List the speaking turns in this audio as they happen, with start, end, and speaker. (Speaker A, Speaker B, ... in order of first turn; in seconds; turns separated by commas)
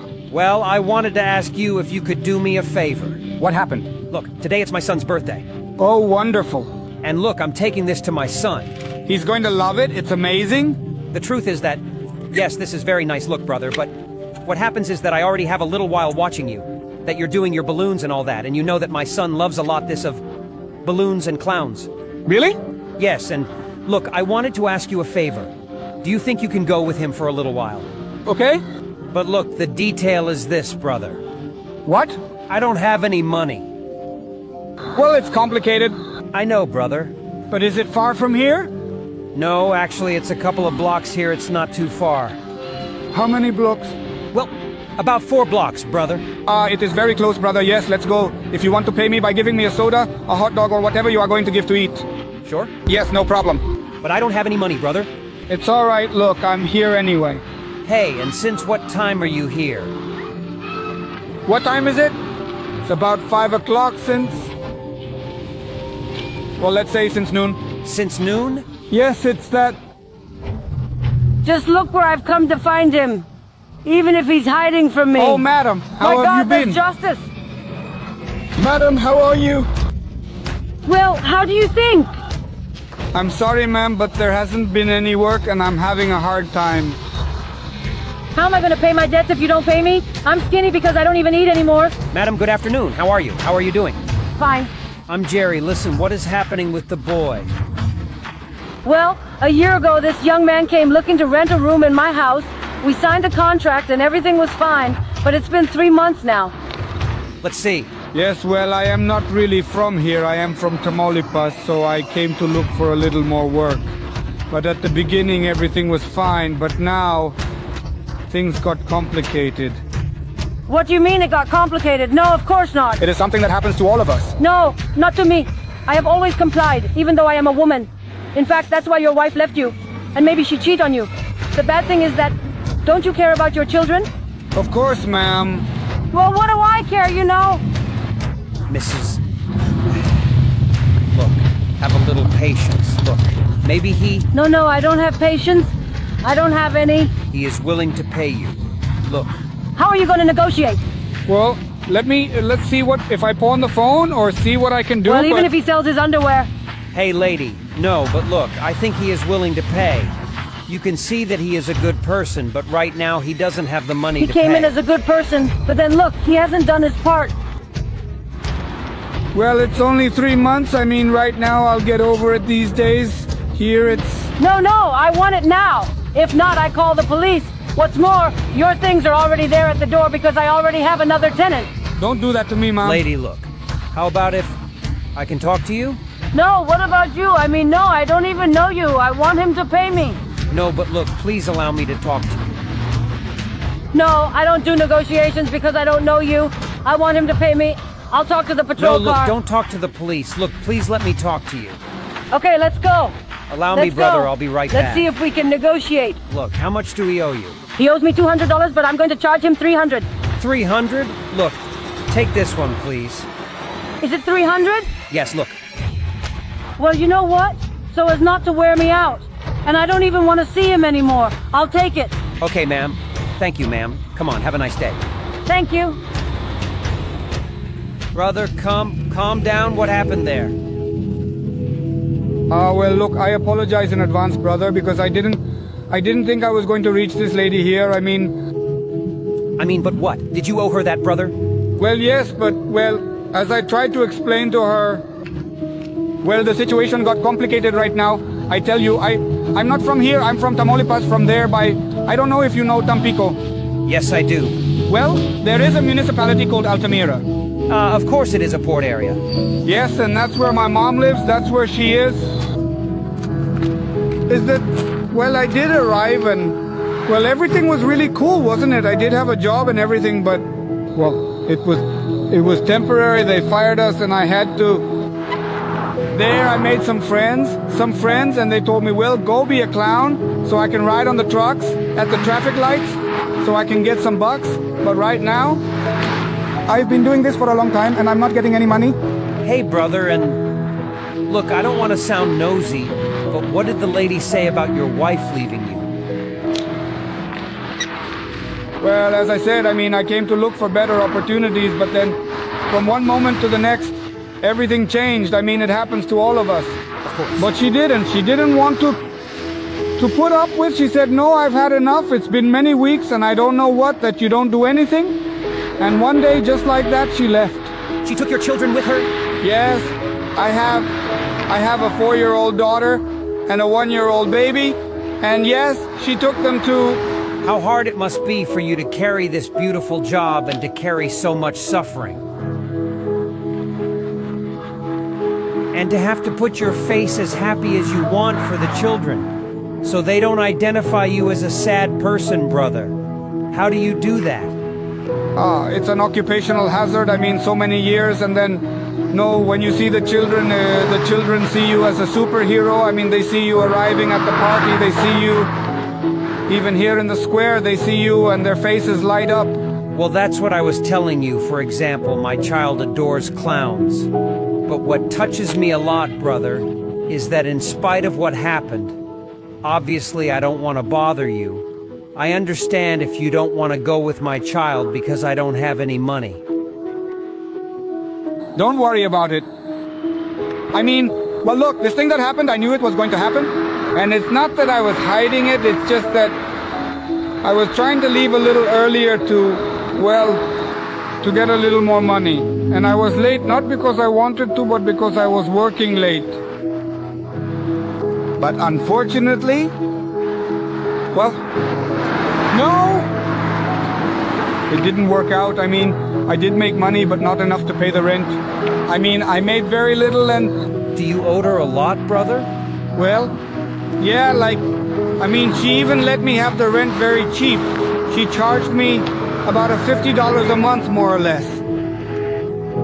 Speaker A: 0.3-3.2, Speaker B: 3.4-3.9, Speaker A: 4.1-5.5, Speaker B: 5.8-6.7, Speaker A: 7.0-8.7, Speaker B: 9.1-10.8, Speaker A: 11.1-13.9, Speaker A: 14.4-20.2, Speaker A: 20.8-21.9, Speaker B: 22.2-22.6, Speaker A: 23.0-25.5, Speaker A: 26.0-27.9, Speaker B: 28.2-28.6, Speaker A: 29.1-31.2, Speaker B: 31.9-32.1, Speaker A: 32.5-33.6, Speaker B: 34.9-35.9, Speaker A: 36.3-37.1, Speaker B: 37.5-38.7, Speaker A: 39.3-42.4, Speaker B: 43.1-44.0, Speaker A: 44.3-46.2, Speaker B: 46.5-52.0, Speaker A: 52.4-52.7, Speaker B: 52.9-53.6, Speaker A: 54.0-55.1, Speaker B: 55.5-57.4, Speaker A: 57.8-59.9, Speaker B: 61.5-62.2, Speaker B: 62.8-64.5, Speaker B: 66.6-67.6, Speaker A: 67.8-68.7, Speaker B: 68.9-69.8, Speaker C: 71.4-73.2, Speaker C: 73.8-75.4, Speaker B: 75.1-76.8, Speaker C: 76.0-77.3, Speaker B: 78.6-79.7, Speaker C: 80.8-82.1, Speaker B: 83.1-87.0, Speaker C: 88.3-92.0, Speaker A: 92.1-94.0, Speaker C: 94.4-94.7, Speaker A: 95.1-97.5, Speaker C: 98.8-106.5, Speaker A: 107.4-107.9, Speaker B: 108.1-113.9, Speaker B: 114.5-117.3, Speaker B: 118.3-119.8, Speaker C: 120.7-123.0, Speaker B: 123.0-124.3, Speaker C: 124.4-134.1, Speaker B: 134.5-135.7, Speaker C: 136.1-137.6, Speaker A: 138.7-139.2, Speaker A: 141.1-144.3, Speaker C: 144.3-145.7, Speaker C: 146.2-147.1, Speaker A: 147.3-149.4, Speaker C: 149.8-150.8, Speaker B: 151.3-155.5, Speaker C: 155.0-156.5, Speaker A: 156.9-160.1, Speaker A: 160.7-164.7, Speaker C: 164.2-167.3, Speaker B: 169.3-174.3, Speaker C: 174.4-181.7, Speaker B: 182.0-183.0, Speaker A: 182.8-184.6, Speaker A: 185.2-186.0, Speaker C: 186.3-190.2, Speaker A: 190.5-192.6, Speaker C: 193.9-199.3, Speaker A: 198.8-201.8, Speaker C: 202.3-203.1, Speaker A: 203.5-205.1, Speaker C: 203.7-206.2, Speaker A: 206.3-207.6, Speaker C: 207.8-210.1, Speaker A: 210.3-213.3, Speaker C: 214.0-214.9, Speaker A: 215.1-215.6, Speaker C: 216.8-222.2, Speaker A: 222.4-225.0, Speaker C: 225.5-226.0, Speaker A: 228.1-230.5, Speaker B: 232.5-238.3, Speaker A: 239.6-241.3, Speaker B: 241.8-245.0, Speaker B: 246.2-253.4, Speaker A: 253.8-254.6, Speaker B: 254.9-257.2, Speaker A: 257.7-259.2, Speaker B: 259.6-262.4, Speaker B: 264.3-274.9, Speaker B: 276.1-285.6, Speaker B: 286.7-288.9, Speaker A: 289.4-290.4, Speaker A: 291.3-295.9, Speaker B: 298.8-302.2, Speaker B: 302.7-306.8, Speaker A: 307.0-307.5, Speaker B: 307.4-309.0, Speaker B: 310.0-315.2, Speaker B: 315.8-317.7, Speaker A: 318.0-319.1, Speaker B: 319.4-320.9, Speaker B: 321.5-327.0, Speaker A: 327.4-332.2, Speaker A: 335.7-339.3, Speaker A: 339.8-342.9, Speaker A: 343.5-344.5, Speaker B: 345.4-355.5, Speaker B: 356.5-359.6, Speaker A: 359.9-364.1, Speaker A: 364.6-369.0, Speaker A: 369.6-376.4, Speaker B: 378.6-379.4, Speaker B: 380.7-386.4, Speaker B: 387.4-390.4, Speaker B: 391.2-396.4, Speaker B: 398.4-399.7, Speaker B: 401.1-401.4, Speaker B: 402.5-403.1, Speaker B: 404.7-410.5, Speaker A: 410.9-412.5, Speaker B: 412.9-413.4, Speaker B: 414.0-414.6, Speaker B: 415.2-421.6